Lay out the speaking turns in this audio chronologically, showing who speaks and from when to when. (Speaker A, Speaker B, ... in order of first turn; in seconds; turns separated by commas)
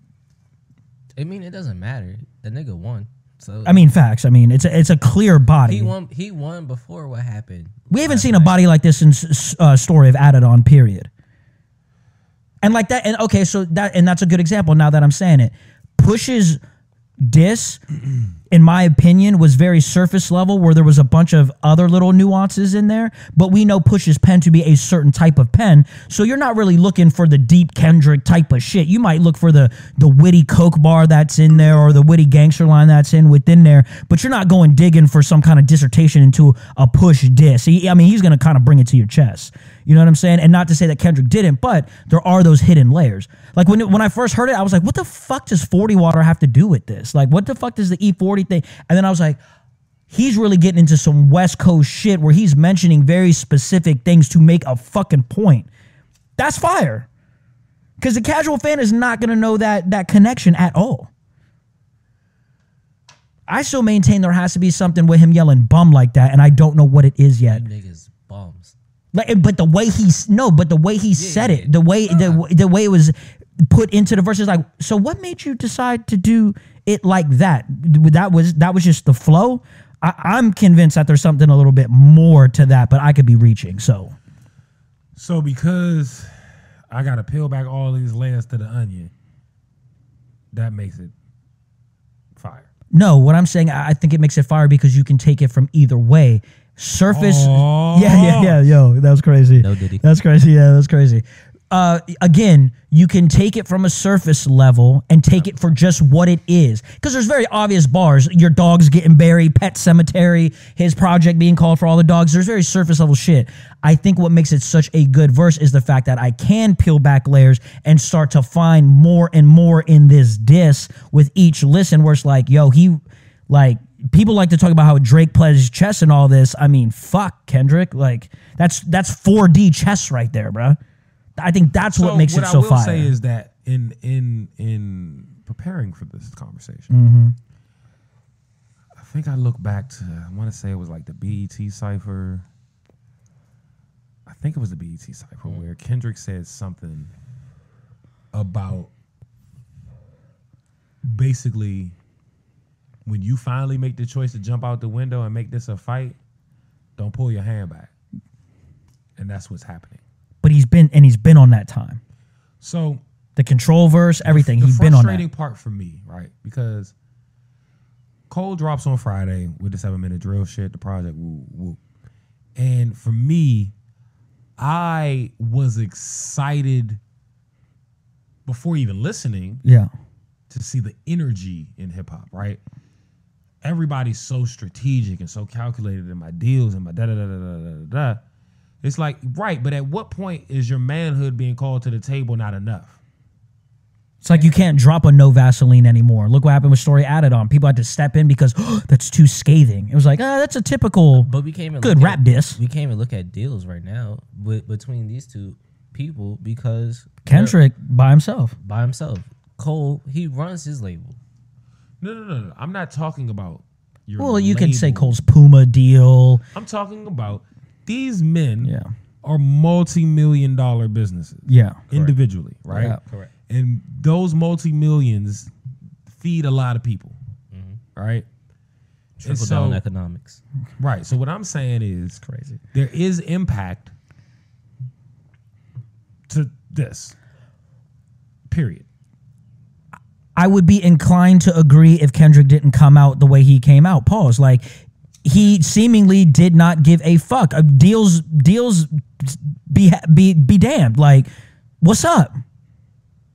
Speaker A: 1.1-3.9, Speaker B: 3.6-5.9, Speaker A: 5.7-8.6, Speaker B: 7.9-11.1, Speaker B: 12.6-16.6, Speaker B: 17.2-17.8, Speaker B: 18.5-49.4, Speaker B: 50.1-55.7, Speaker B: 56.4-57.1, Speaker B: 58.0-61.1, Speaker B: 63.5-67.6, Speaker A: 67.4-68.7, Speaker B: 69.1-84.1, Speaker A: 71.2-72.4, Speaker C: 85.2-86.3, Speaker C: 86.9-89.1, Speaker C: 90.5-91.1, Speaker C: 92.3-92.7, Speaker B: 92.9-130.8, Speaker C: 97.1-98.7, Speaker A: 99.6-100.0, Speaker B: 131.3-133.1, Speaker C: 131.9-136.9, Speaker B: 136.9-137.3, Speaker C: 139.0-142.4, Speaker C: 144.2-147.1, Speaker C: 148.3-148.9, Speaker C: 151.0-151.9, Speaker C: 153.1-156.2, Speaker C: 157.0-157.9, Speaker C: 159.2-160.0, Speaker B: 160.4-162.0, Speaker C: 162.6-163.0, Speaker B: 163.3-165.2, Speaker C: 164.2-166.9, Speaker C: 168.3-171.8, Speaker C: 172.6-173.7, Speaker C: 174.6-177.0, Speaker C: 178.4-179.6, Speaker B: 179.6-179.9, Speaker C: 180.5-182.6, Speaker C: 183.6-188.2, Speaker C: 188.8-193.0, Speaker B: 194.2-201.3, Speaker A: 201.2-207.6, Speaker B: 201.8-202.6, Speaker B: 207.2-208.6, Speaker A: 208.6-211.2, Speaker C: 212.0-215.2, Speaker B: 214.2-216.4, Speaker C: 216.5-223.0, Speaker B: 218.6-218.9, Speaker B: 221.5-222.1, Speaker B: 222.7-223.0, Speaker A: 222.8-223.3, Speaker C: 223.5-225.5, Speaker C: 226.1-227.2, Speaker A: 227.5-227.8, Speaker C: 227.9-228.2, Speaker A: 229.2-230.4, Speaker C: 229.2-229.8, Speaker C: 230.8-232.2, Speaker B: 232.2-232.6, Speaker C: 232.7-233.9, Speaker C: 236.3-237.1, Speaker C: 238.5-238.8, Speaker B: 240.3-244.7, Speaker B: 245.2-251.3, Speaker B: 251.8-252.3